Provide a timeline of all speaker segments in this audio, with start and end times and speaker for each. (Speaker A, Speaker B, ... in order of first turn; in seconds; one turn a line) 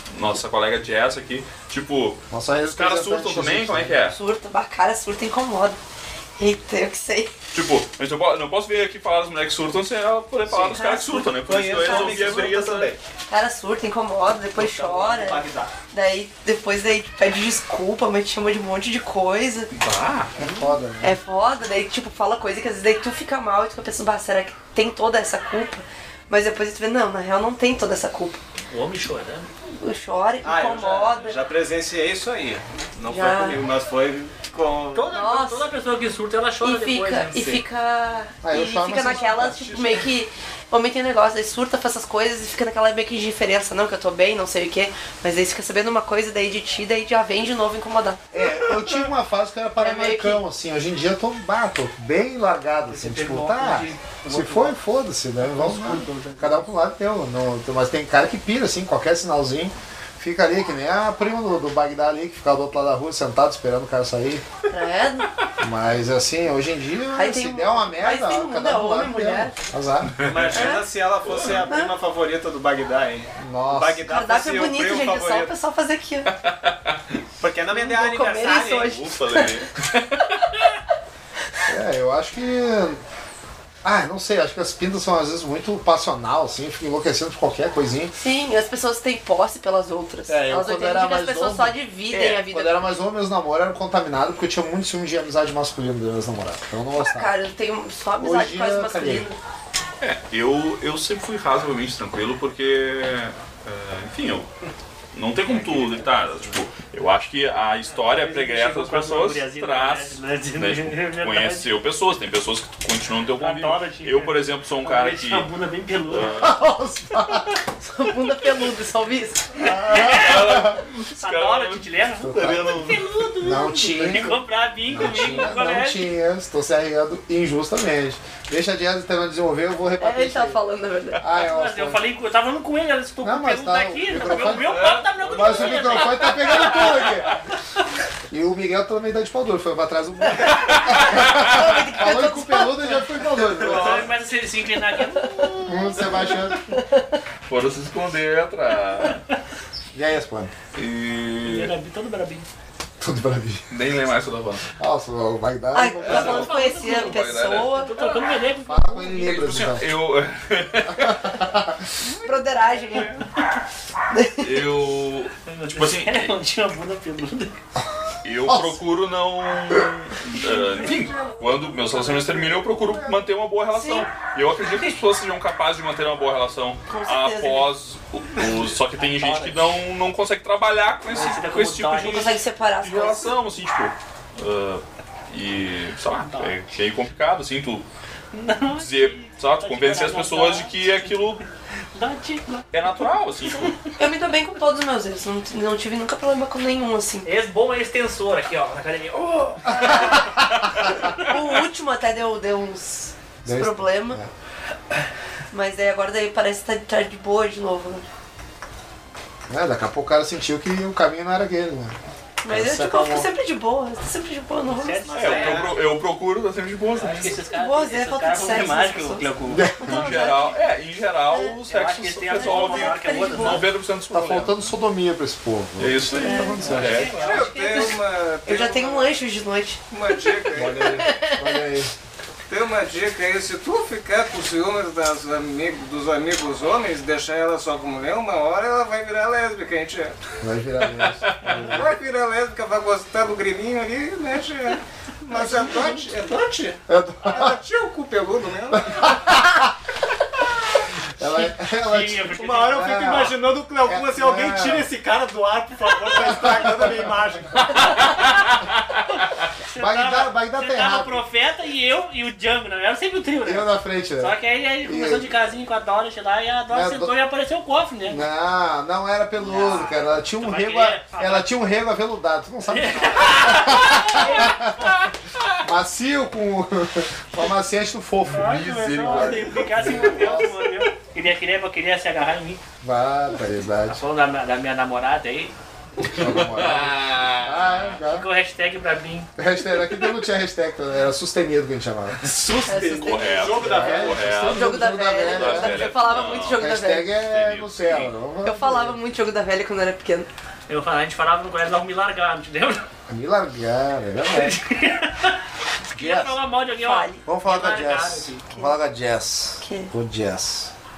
Speaker A: 0.1-4.2
Speaker B: 2.3-4.0
Speaker C: 4.1-5.8
Speaker C: 6.4-7.3
Speaker A: 7.5-12.9
Speaker C: 10.5-12.6
Speaker D: 11.4-13.0
Speaker C: 13.3-19.7
Speaker D: 14.6-15.7
Speaker A: 19.7-20.4
Speaker B: 20.4-21.2
Speaker C: 21.0-28.4
Speaker E: 28.7-29.5
Speaker C: 29.8-31.4
Speaker D: 30.4-35.1
Speaker C: 33.1-33.6
Speaker E: 34.9-37.6
Speaker C: 35.1-35.7
Speaker C: 36.6-48.2
Speaker B: 38.4-39.6
Speaker D: 39.1-40.0
Speaker B: 48.3-64.5
Speaker C: 49.8-50.4
Speaker E: 52.9-54.7
Speaker E: 55.6-56.5
Speaker C: 64.7-65.3
Speaker B: 65.6-70.2
Speaker C: 67.1-69.5
Speaker A: 70.2-70.7
Speaker D: 70.2-75.5
Speaker C: 70.5-70.9
Speaker A: 71.2-71.7
Speaker C: 71.6-72.0
Speaker B: 73.4-74.1
Speaker C: 74.1-76.3
Speaker A: 76.4-77.0
Speaker D: 77.4-78.9
Speaker C: 77.7-79.7
Speaker A: 78.8-80.2
Speaker B: 81.7-83.0
Speaker B: 83.8-88.2
Speaker C: 88.2-92.9
Speaker B: 90.3-97.3
Speaker C: 97.0-99.4
Speaker B: 98.2-99.3
Speaker A: 100.0-104.5
Speaker A: 105.1-115.5
Speaker D: 105.5-106.1
Speaker E: 107.9-111.7
Speaker E: 113.4-116.4
Speaker A: 116.1-116.6
Speaker B: 116.3-117.5
Speaker C: 117.8-119.6
Speaker B: 119.6-120.8
Speaker A: 119.7-123.1
Speaker E: 119.8-126.1
Speaker B: 122.2-130.6
Speaker C: 130.0-131.2
Speaker B: 131.2-132.0
Speaker E: 131.3-136.9
Speaker B: 133.2-137.3
Speaker A: 134.8-136.5
Speaker B: 138.3-144.1
Speaker C: 140.6-143.1
Speaker E: 143.6-146.0
Speaker A: 143.6-144.0
Speaker C: 145.0-147.2
Speaker B: 145.6-146.7
Speaker A: 147.5-149.2
Speaker B: 149.9-150.5
Speaker A: 150.7-151.7
Speaker E: 151.4-152.4
Speaker B: 153.0-153.7
Speaker A: 153.7-154.6
Speaker B: 154.8-156.6
Speaker C: 155.7-158.2
Speaker E: 156.0-159.4
Speaker A: 156.1-157.7
Speaker B: 158.6-159.9
Speaker A: 159.2-161.4
Speaker B: 160.9-161.8
Speaker C: 162.2-163.2
Speaker C: 164.1-164.7
Speaker A: 164.4-166.3
Speaker E: 165.5-167.6
Speaker A: 168.2-187.8
Speaker B: 168.4-168.8
Speaker B: 170.8-173.2
Speaker C: 173.7-174.1
Speaker C: 176.9-177.7
Speaker C: 179.0-179.3
Speaker E: 179.2-179.6
Speaker E: 181.1-182.3
Speaker C: 182.0-183.3
Speaker E: 186.2-186.6
Speaker E: 188.3-191.3
Speaker A: 188.8-191.4
Speaker E: 191.9-192.8
Speaker A: 192.7-193.7
Speaker C: 193.9-197.3
Speaker E: 197.2-200.3
Speaker B: 199.7-200.9
Speaker C: 199.7-204.2
Speaker B: 203.4-204.3
Speaker C: 205.5-208.1
Speaker B: 209.5-211.9
Speaker C: 212.4-215.4
Speaker B: 212.5-213.3
Speaker E: 214.7-215.7
Speaker D: 215.1-215.8
Speaker A: 215.1-217.4
Speaker E: 217.0-219.7
Speaker D: 217.0-217.3
Speaker C: 217.4-220.6
Speaker B: 219.5-220.1
Speaker A: 219.8-224.7
Speaker C: 221.3-221.6
Speaker E: 221.7-223.6
Speaker C: 222.3-223.7
Speaker B: 224.1-227.1
Speaker A: 225.8-227.2
Speaker C: 226.2-229.8
Speaker E: 226.7-227.9
Speaker D: 227.0-229.2
Speaker D: 229.9-231.0
Speaker B: 230.5-231.9
Speaker C: 230.9-231.6
Speaker D: 232.5-240.2
Speaker B: 240.4-241.9
Speaker A: 241.2-241.6
Speaker D: 241.4-249.2
Speaker B: 246.9-247.6
Speaker B: 248.8-249.7
Speaker B: 251.2-254.9
Speaker E: 251.7-253.0
Speaker D: 252.3-257.9
Speaker B: 256.4-256.9
Speaker E: 259.7-268.2
Speaker B: 259.7-261.2
Speaker B: 263.4-265.3
Speaker B: 266.7-267.1
Speaker B: 268.1-274.9
Speaker E: 269.5-271.5
Speaker E: 272.7-274.9
Speaker B: 275.6-280.8
Speaker E: 278.3-282.6
Speaker A: 278.4-280.0
Speaker B: 282.8-284.0
Speaker E: 283.9-285.5
Speaker B: 286.1-288.3
Speaker A: 286.1-288.0
Speaker E: 288.1-289.3
Speaker B: 289.4-292.3
Speaker D: 292.2-294.4
Speaker C: 292.6-293.6
Speaker A: 292.9-296.7
Speaker B: 293.6-295.9
Speaker C: 294.5-297.1
Speaker B: 296.6-299.0
Speaker A: 297.2-298.1
Speaker C: 298.4-300.3
Speaker E: 300.7-302.8
Speaker B: 303.1-304.6
Speaker E: 304.3-305.4
Speaker B: 305.9-306.4
Speaker E: 305.9-308.4
Speaker C: 306.8-307.2
Speaker B: 307.2-310.7
Speaker C: 309.6-309.9